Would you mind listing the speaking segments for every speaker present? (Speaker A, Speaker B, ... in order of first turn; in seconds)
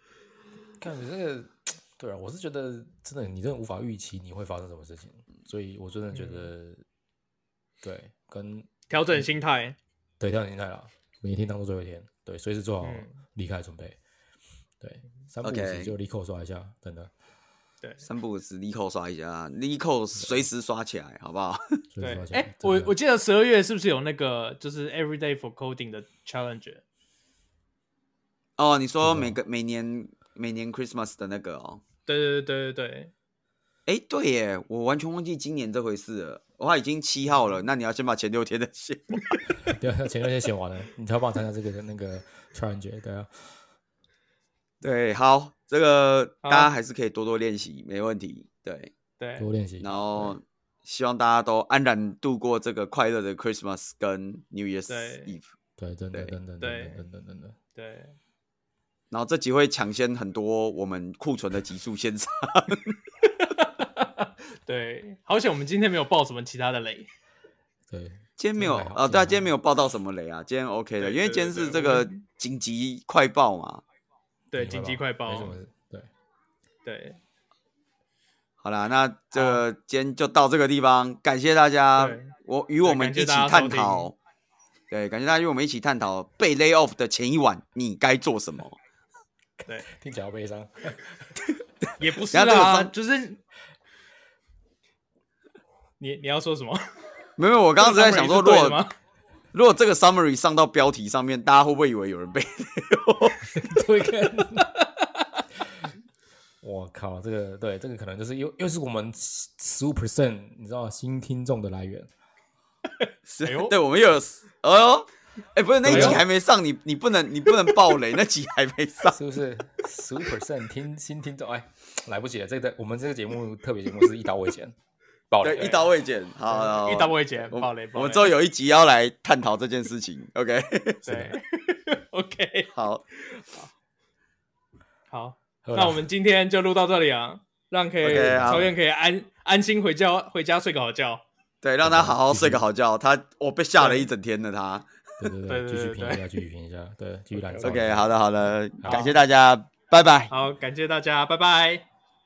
Speaker A: 0.8-6.8, 7.8-9.2, 10.2-14.0, 14.8-17.1, 21.9-22.9, 29.0-29.4, 39.6-43.5, 49.4-50.4, 55.8-57.6, 67.9-69.5, 74.5-76.1, 89.6-91.3, 103.5-104.8, 106.6-112.1, 115.8-116.2, 119.0-124.7, 125.3-125.8, 131.0-131.3, 135.6-136.1, 138.1-138.7, 141.8-142.6, 145.2-149.0
Speaker B: 6.1-6.5, 8.9-9.8, 12.8-13.2, 22.0-26.8, 32.0-33.1, 46.4-46.7, 49.2-49.5, 54.9-55.3, 56.6-57.0, 57.7-58.1, 63.4-67.1, 71.0-72.2, 74.5-75.6, 76.8-77.2, 79.3-79.6, 82.0-84.1, 92.0-93.4, 96.0-96.9, 97.8-98.9, 113.0-113.7, 115.8-116.2, 125.5-125.9, 126.5-128.3, 131.0-133.7, 135.1-141.2, 143.8-144.1, 145.5-146.2, 147.3-147.8, 148.8-149.2, 150.3-151.9
Speaker C: 15.4-15.9, 18.0-21.8, 28.6-31.8, 33.9-39.4, 44.8-48.9, 49.8-55.5, 59.1-63.0, 68.4-73.8, 78.6-84.1, 84.9-88.8, 92.3-92.9, 97.4-98.8, 99.5-103.5, 113.2-119.2, 125.4-131.0, 132.7-133.0, 138.0-138.7, 141.6-144.9, 147.6-150.3